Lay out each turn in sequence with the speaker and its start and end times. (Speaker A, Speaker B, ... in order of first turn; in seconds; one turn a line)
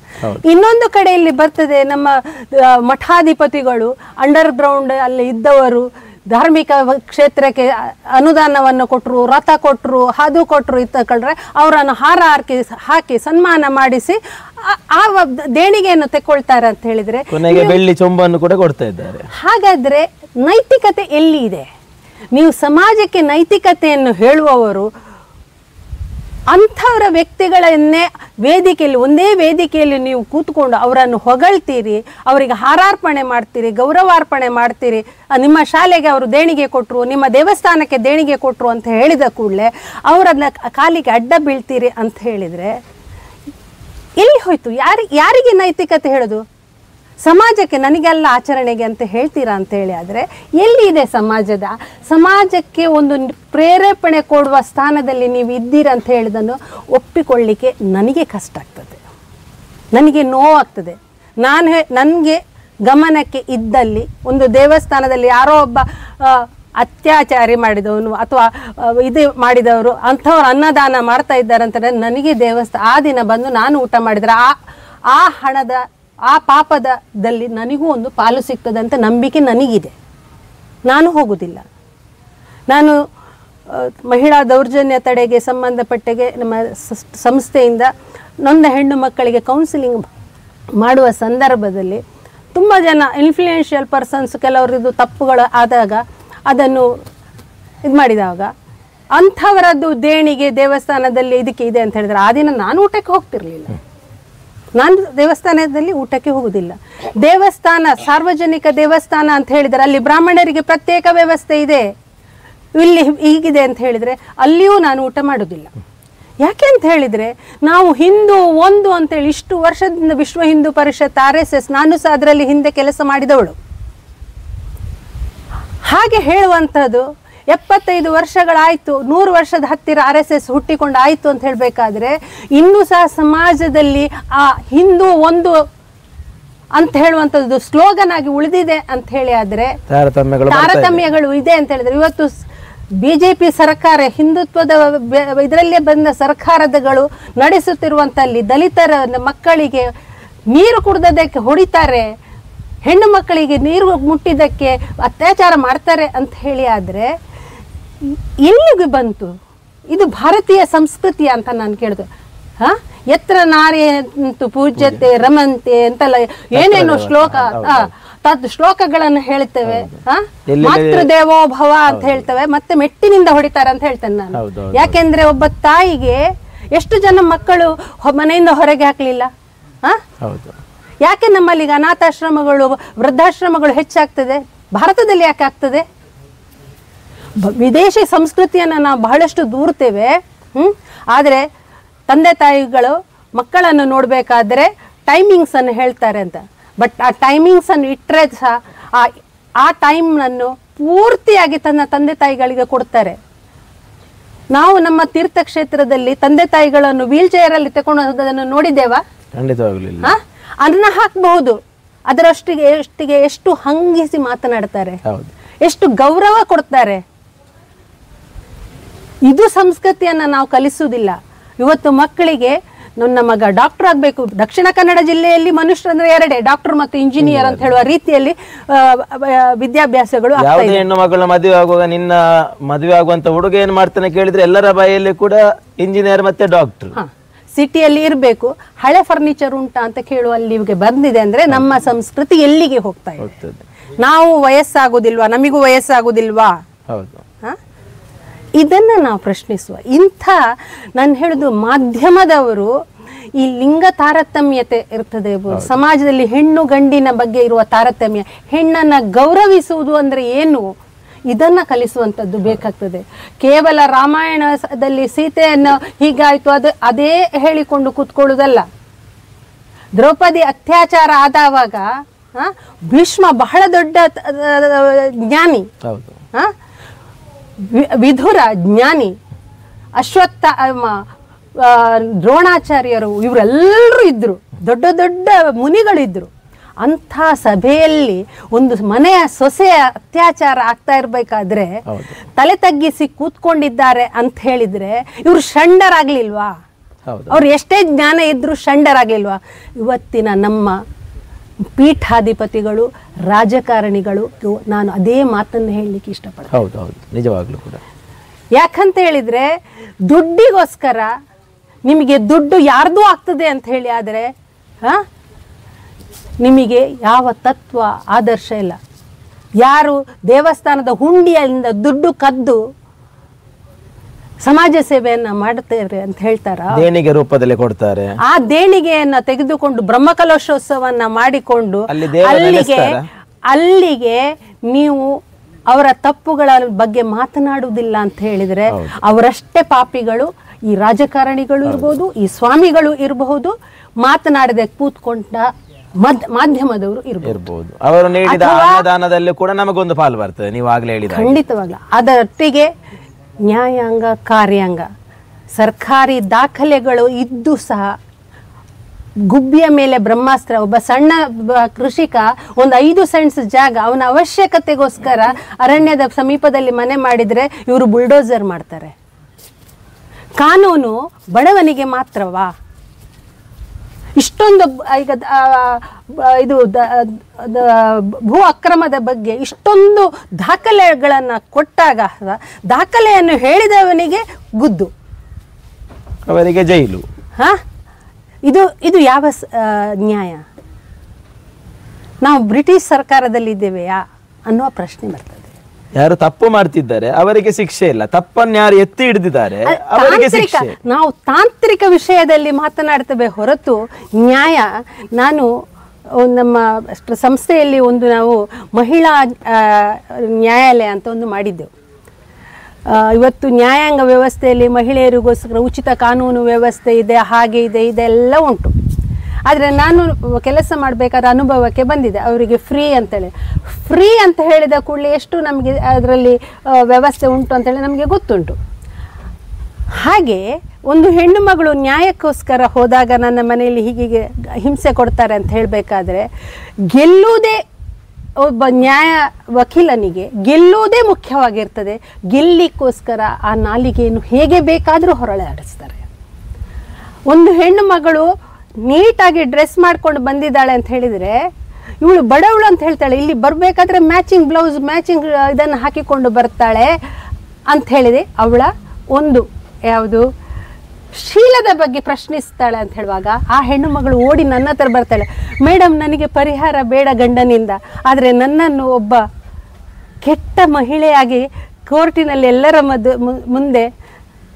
Speaker A: 0.4-17.8
Speaker B: 17.3-19.2
Speaker A: 19.3-21.7
Speaker A: 22.3-24.9
Speaker A: 26.5-42.8
Speaker A: 44.2-46.4
Speaker A: 47.2-59.0
Speaker A: 59.9-74.5
Speaker A: 75.1-79.9
Speaker A: 80.9-81.6
Speaker A: 82.7-83.0
Speaker A: 83.7-87.9
Speaker A: 88.4-90.0
Speaker A: 90.8-92.0
Speaker A: 92.5-96.9
Speaker A: 97.8-98.5
Speaker A: 99.1-103.8
Speaker A: 104.7-111.9
Speaker A: 112.8-115.7
Speaker A: 116.4-123.5
Speaker A: 125.9-135.6
Speaker A: 136.7-139.8
Speaker B: 139.9-141.0
Speaker A: 140.5-142.3
Speaker A: 143.0-149.9
Speaker A: 150.5-152.1
Speaker A: 152.8-157.1
Speaker A: 158.0-159.3
Speaker A: 159.9-162.1
Speaker A: 162.6-179.3
Speaker B: 164.8-165.1
Speaker B: 166.5-167.9
Speaker B: 169.7-169.9
Speaker B: 170.5-171.1
Speaker B: 171.9-172.3
Speaker B: 174.3-175.0
Speaker B: 180.2-180.6
Speaker A: 181.0-185.8
Speaker A: 187.4-191.4
Speaker A: 192.1-203.2
Speaker A: 204.5-209.0
Speaker B: 209.3-210.1
Speaker A: 210.0-211.6
Speaker A: 212.1-215.0
Speaker B: 215.0-215.3
Speaker A: 215.6-217.0
Speaker A: 219.3-230.8
Speaker B: 227.2-227.7
Speaker B: 230.4-236.9
Speaker A: 236.9-243.3
Speaker B: 243.2-243.6
Speaker A: 244.0-246.6
Speaker B: 246.9-247.2
Speaker A: 248.6-250.4
Speaker A: 250.9-252.7
Speaker A: 253.4-260.7
Speaker B: 255.5-255.8
Speaker A: 261.3-268.6
Speaker A: 270.0-275.7
Speaker B: 275.8-276.1
Speaker A: 277.6-279.1
Speaker A: 280.0-281.0
Speaker A: 281.6-286.3
Speaker A: 286.8-291.8
Speaker B: 291.9-292.1
Speaker A: 292.3-296.5
Speaker B: 297.1-297.4
Speaker A: 297.3-300.8
Speaker A: 301.8-306.5
Speaker B: 306.5-307.8
Speaker A: 308.5-309.5
Speaker A: 310.1-311.1
Speaker A: 311.9-314.3
Speaker A: 316.4-318.8
Speaker A: 319.6-322.6
Speaker A: 324.4-326.8
Speaker B: 326.7-328.1
Speaker A: 328.3-332.9
Speaker B: 331.9-333.1
Speaker A: 333.5-335.1
Speaker A: 335.7-345.5
Speaker B: 338.7-339.0
Speaker B: 341.6-342.0
Speaker A: 346.0-347.4
Speaker B: 347.2-351.4
Speaker A: 348.3-348.8
Speaker A: 351.1-352.7
Speaker A: 353.5-354.9
Speaker A: 355.6-357.9
Speaker A: 359.3-368.9
Speaker A: 370.4-372.5
Speaker A: 374.2-384.9
Speaker B: 386.3-387.0
Speaker A: 388.5-390.4
Speaker A: 392.2-395.5
Speaker B: 396.0-400.8
Speaker A: 399.6-405.5
Speaker A: 406.1-411.7
Speaker A: 412.9-418.7
Speaker A: 419.5-428.6
Speaker A: 429.9-436.3
Speaker A: 436.9-437.6
Speaker A: 438.4-446.1
Speaker A: 447.3-448.3
Speaker A: 448.8-451.5
Speaker A: 452.0-456.9
Speaker A: 457.7-460.2
Speaker A: 461.1-469.2
Speaker A: 470.2-473.9